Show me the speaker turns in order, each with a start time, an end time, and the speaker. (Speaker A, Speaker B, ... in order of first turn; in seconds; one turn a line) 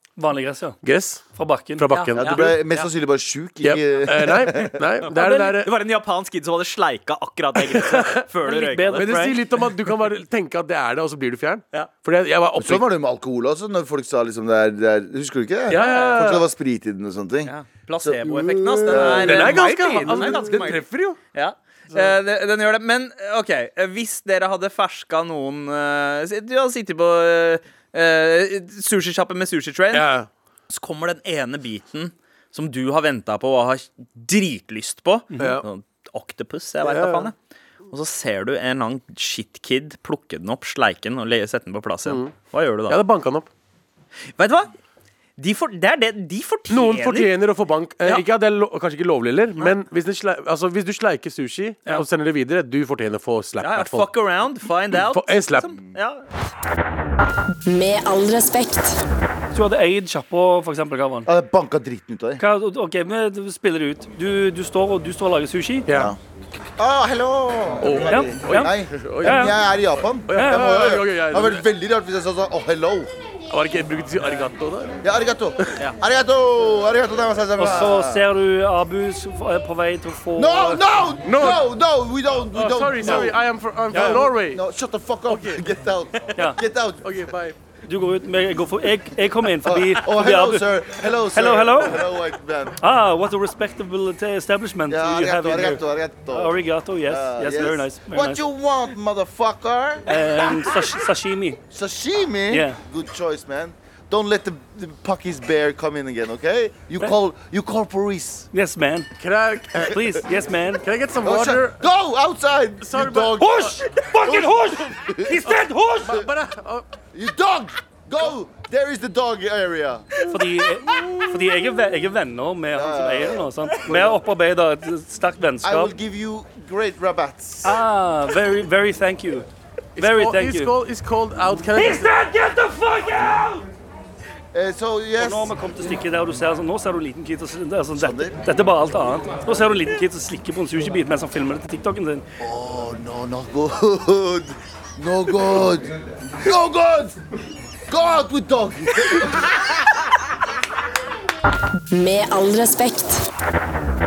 Speaker A: 0.2-0.8
Speaker B: 0.8-1.2
Speaker A: 1.3-1.9
Speaker B: 1.8-2.5
Speaker C: 1.9-2.9
Speaker D: 2.2-4.8
Speaker B: 3.6-5.7
Speaker C: 5.0-9.2
Speaker B: 7.6-8.2
Speaker A: 8.4-9.4
Speaker B: 9.0-12.8
Speaker D: 12.6-18.3
Speaker B: 15.7-16.5
Speaker C: 15.7-16.2
Speaker C: 17.4-30.1
Speaker B: 18.3-21.2
Speaker D: 18.9-19.7
Speaker B: 29.9-30.3
Speaker C: 30.7-37.4
Speaker A: 35.3-35.6
Speaker B: 35.4-35.6
Speaker B: 36.8-37.3
Speaker C: 37.9-43.0
Speaker B: 42.1-42.3
Speaker B: 42.9-43.5
Speaker C: 44.4-44.7
Speaker C: 45.4-47.3
Speaker B: 46.7-54.1
Speaker C: 53.6-56.2
Speaker B: 55.0-55.7
Speaker E: 57.7-59.0
Speaker A: 59.5-61.3
Speaker D: 61.3-62.4
Speaker A: 62.4-65.9
Speaker B: 65.9-66.1
Speaker D: 65.9-66.2
Speaker D: 66.8-73.1
Speaker B: 67.8-69.7
Speaker A: 68.1-69.5
Speaker B: 70.3-71.7
Speaker A: 70.3-70.7
Speaker B: 73.5-75.0
Speaker D: 75.0-78.2
Speaker A: 77.6-80.8
Speaker D: 80.4-83.4
Speaker B: 81.2-81.6
Speaker B: 82.5-84.6
Speaker D: 83.9-87.2
Speaker B: 85.3-85.6
Speaker B: 87.0-87.6
Speaker A: 87.9-90.7
Speaker D: 89.6-92.8
Speaker A: 91.3-92.0
Speaker A: 92.8-98.4
Speaker D: 94.9-100.2
Speaker A: 100.1-101.6
Speaker D: 101.7-108.5
Speaker A: 102.5-102.8
Speaker A: 108.5-109.1
Speaker B: 109.2-110.0
Speaker A: 109.8-110.8
Speaker B: 110.8-111.8
Speaker D: 111.2-115.5
Speaker B: 112.8-113.7
Speaker A: 113.4-116.2
Speaker B: 116.0-116.9
Speaker D: 117.1-120.1
Speaker A: 120.3-125.9
Speaker D: 122.7-124.2
Speaker D: 125.6-127.8
Speaker A: 127.6-129.5
Speaker B: 130.0-132.1
Speaker A: 130.0-130.8
Speaker A: 131.8-133.7
Speaker D: 134.5-135.5
Speaker A: 135.2-142.2
Speaker D: 137.9-138.3
Speaker D: 142.4-147.2
Speaker D: 147.9-149.7
Speaker E: 151.9-153.3